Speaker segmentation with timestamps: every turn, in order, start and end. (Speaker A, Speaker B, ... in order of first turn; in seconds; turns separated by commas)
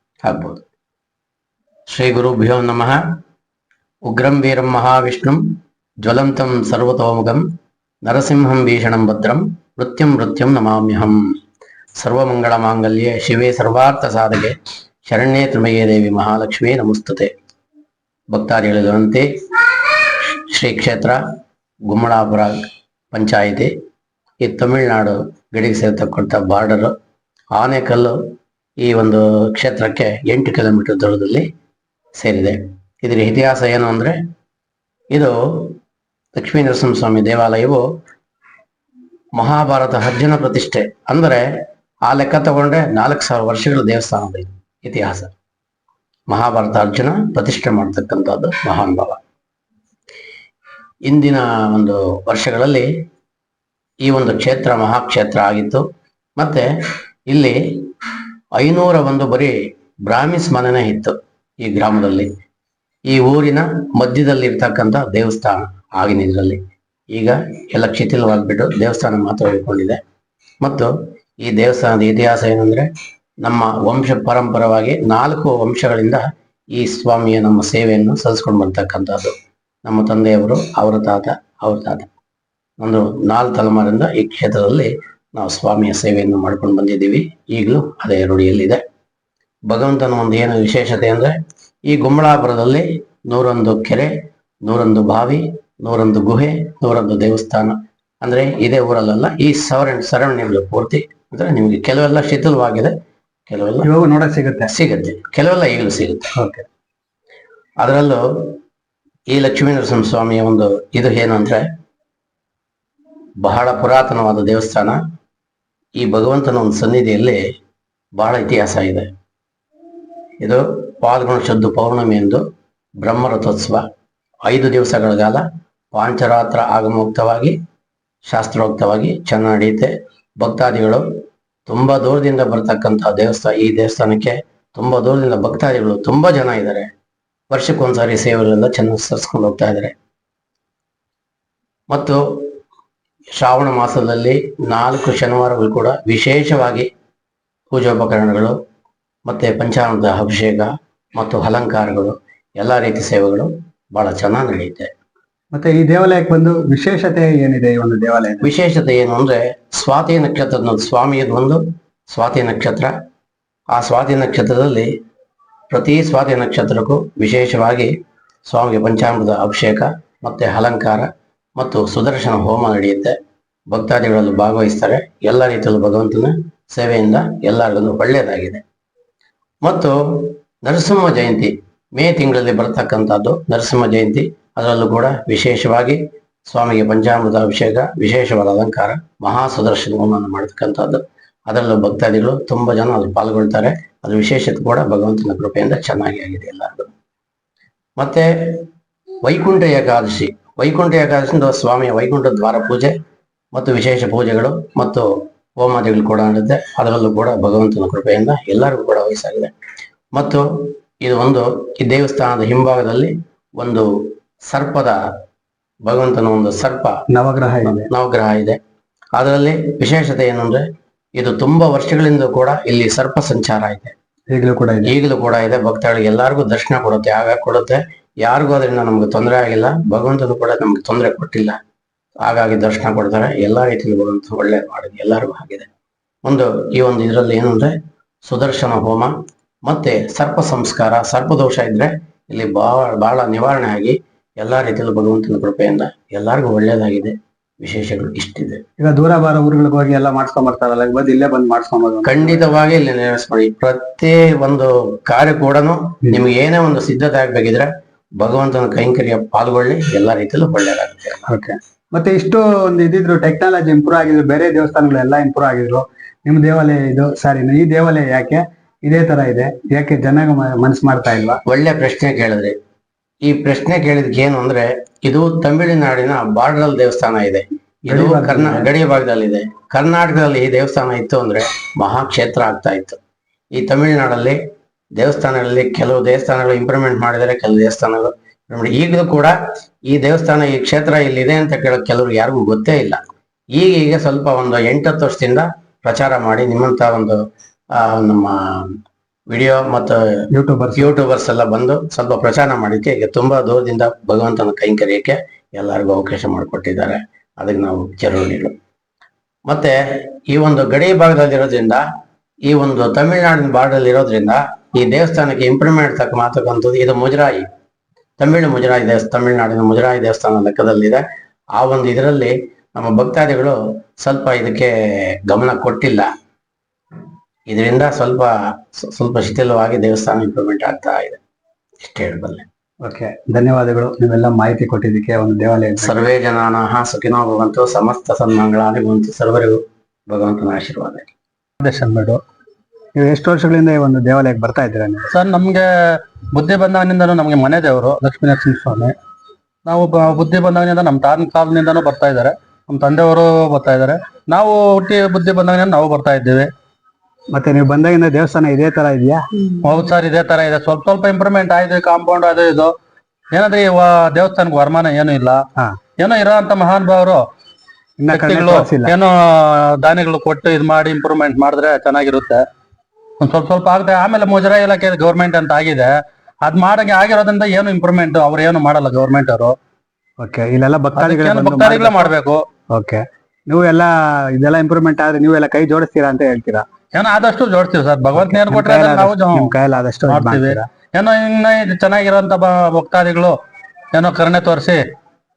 Speaker A: 0.2-0.6, Speaker A: 1.9-3.0, Speaker A: 4.0-5.4, Speaker A: 6.0-7.5, Speaker A: 8.0-11.2, Speaker A: 12.0-17.3, Speaker A: 18.3-19.3, Speaker A: 20.5-21.2, Speaker A: 21.9-22.6, Speaker A: 23.1-23.7, Speaker A: 24.4-26.9, Speaker A: 27.6-28.2, Speaker A: 28.8-31.5, Speaker A: 32.2-34.2, Speaker A: 35.1-35.8, Speaker A: 36.4-37.8, Speaker A: 39.4-41.5, Speaker A: 42.1-45.3, Speaker A: 46.3-49.2, Speaker A: 51.1-52.9, Speaker A: 54.0-55.9, Speaker A: 56.4-56.7, Speaker A: 57.3-57.9, Speaker A: 58.6-62.3, Speaker A: 63.1-66.6, Speaker A: 67.1-70.0, Speaker A: 70.6-70.9, Speaker A: 71.4-72.9, Speaker A: 73.4-76.2, Speaker A: 76.8-79.3, Speaker A: 79.8-82.1, Speaker A: 82.8-88.8, Speaker A: 89.7-94.1, Speaker A: 94.6-102.9, Speaker A: 103.5-103.9, Speaker B: 103.8-104.7, Speaker A: 104.7-106.3, Speaker B: 106.4-106.6, Speaker A: 107.8-108.6, Speaker A: 109.3-111.7, Speaker A: 113.4-115.0, Speaker A: 116.0-117.4, Speaker A: 118.2-119.1, Speaker A: 120.4-122.4, Speaker A: 123.0-123.8, Speaker A: 124.5-127.6, Speaker A: 128.2-131.0, Speaker A: 131.7-136.9, Speaker A: 137.5-139.9, Speaker A: 141.9-142.5, Speaker A: 143.3-146.9, Speaker A: 147.7-148.6, Speaker A: 149.3-154.9, Speaker B: 155.5-158.5, Speaker A: 158.4-162.9, Speaker A: 163.7-164.9, Speaker A: 165.7-167.9, Speaker A: 168.5-173.2, Speaker A: 173.7-178.6, Speaker A: 179.6-196.9, Speaker A: 198.0-198.7, Speaker A: 199.2-202.9, Speaker A: 203.5-209.5, Speaker A: 210.2-213.9, Speaker A: 214.5-215.0, Speaker A: 215.8-217.0, Speaker B: 217.1-217.9, Speaker A: 217.7-218.6, Speaker A: 219.2-220.6, Speaker A: 221.2-223.9, Speaker B: 224.3-224.9, Speaker A: 224.8-231.6, Speaker A: 232.2-235.7, Speaker A: 236.2-237.7, Speaker A: 238.2-239.1, Speaker A: 239.7-248.6, Speaker B: 248.8-252.5, Speaker A: 252.1-261.3, Speaker B: 261.3-271.4, Speaker A: 271.5-272.6, Speaker A: 273.2-283.0, Speaker B: 277.9-278.7, Speaker A: 283.5-284.4, Speaker A: 285.0-289.3, Speaker A: 289.9-293.0, Speaker A: 293.6-297.2, Speaker A: 297.7-298.7, Speaker A: 299.3-300.2, Speaker B: 300.3-300.9, Speaker A: 300.8-308.6, Speaker A: 309.5-311.9, Speaker A: 312.5-317.5, Speaker A: 318.2-321.0, Speaker A: 321.6-326.1, Speaker A: 327.5-331.2, Speaker A: 331.8-332.4, Speaker B: 332.8-335.9, Speaker A: 335.8-341.1, Speaker C: 341.6-342.2, Speaker B: 343.0-345.1, Speaker C: 345.1-348.9, Speaker C: 349.7-356.5, Speaker B: 357.3-359.2, Speaker C: 359.6-362.7, Speaker C: 363.3-365.4, Speaker C: 366.0-367.2, Speaker B: 368.0-369.0, Speaker C: 368.1-372.4, Speaker C: 373.2-379.6, Speaker B: 380.2-382.1, Speaker C: 381.0-382.4, Speaker B: 382.7-386.7, Speaker C: 386.9-389.5, Speaker B: 388.1-390.7, Speaker C: 390.1-393.4, Speaker C: 393.9-394.8